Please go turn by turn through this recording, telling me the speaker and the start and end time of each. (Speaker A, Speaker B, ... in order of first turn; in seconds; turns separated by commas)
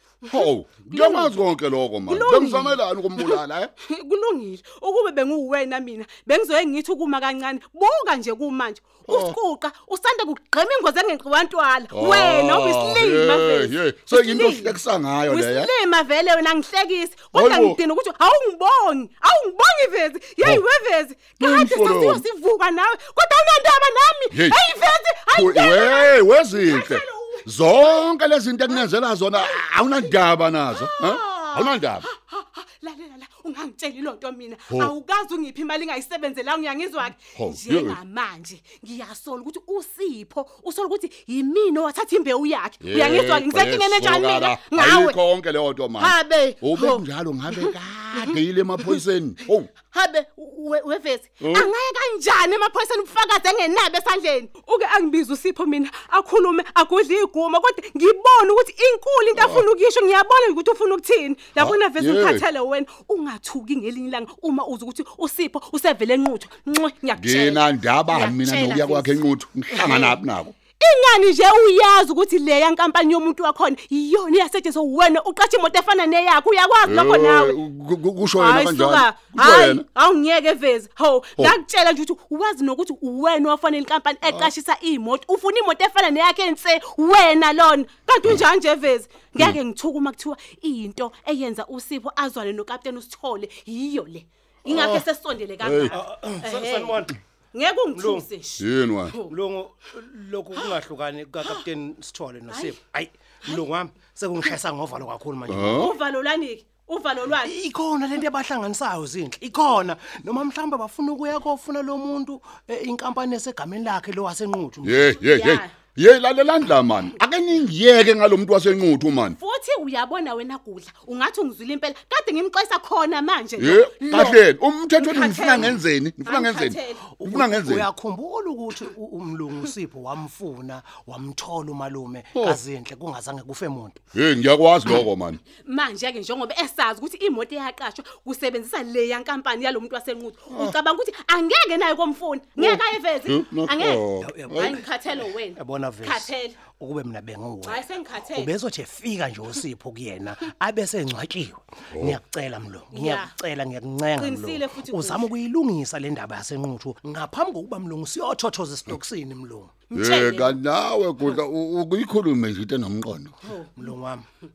Speaker A: 0.2-1.4, Speaker B: 0.3-3.7, Speaker A: 2.1-28.0, Speaker B: 9.1-9.4, Speaker B: 11.9-15.7, Speaker B: 17.3-17.8, Speaker B: 21.4-22.2, Speaker B: 24.3-24.6, Speaker B: 25.3-32.1, Speaker A: 28.6-30.1, Speaker A: 30.7-45.2, Speaker B: 37.4-38.0, Speaker B: 42.8-49.7, Speaker A: 46.0-48.4, Speaker A: 49.8-70.2, Speaker B: 51.4-51.7, Speaker B: 59.4-59.6, Speaker B: 61.6-62.4, Speaker B: 67.2-70.5, Speaker A: 70.8-77.6, Speaker B: 76.8-79.8, Speaker A: 78.4-99.3, Speaker B: 94.7-95.0, Speaker B: 95.6-96.0, Speaker C: 96.0-97.1, Speaker C: 98.0-98.2, Speaker B: 98.6-99.2, Speaker C: 99.3-105.9, Speaker A: 102.5-102.8, Speaker B: 105.5-105.9, Speaker A: 105.7-107.6, Speaker C: 107.5-115.1, Speaker B: 114.8-119.4, Speaker A: 115.1-115.7, Speaker A: 119.4-124.4, Speaker B: 123.6-127.9, Speaker A: 125.0-127.2, Speaker C: 127.1-134.0, Speaker B: 132.3-132.6, Speaker B: 134.1-135.4, Speaker A: 135.6-146.6, Speaker B: 140.5-140.8, Speaker B: 142.6-144.8, Speaker C: 144.2-144.8, Speaker C: 145.6-159.8, Speaker A: 147.6-148.6, Speaker B: 151.9-152.2, Speaker A: 152.9-153.3, Speaker A: 154.2-155.3, Speaker A: 159.9-160.6, Speaker B: 159.9-163.3, Speaker A: 163.6-163.8, Speaker C: 163.8-164.3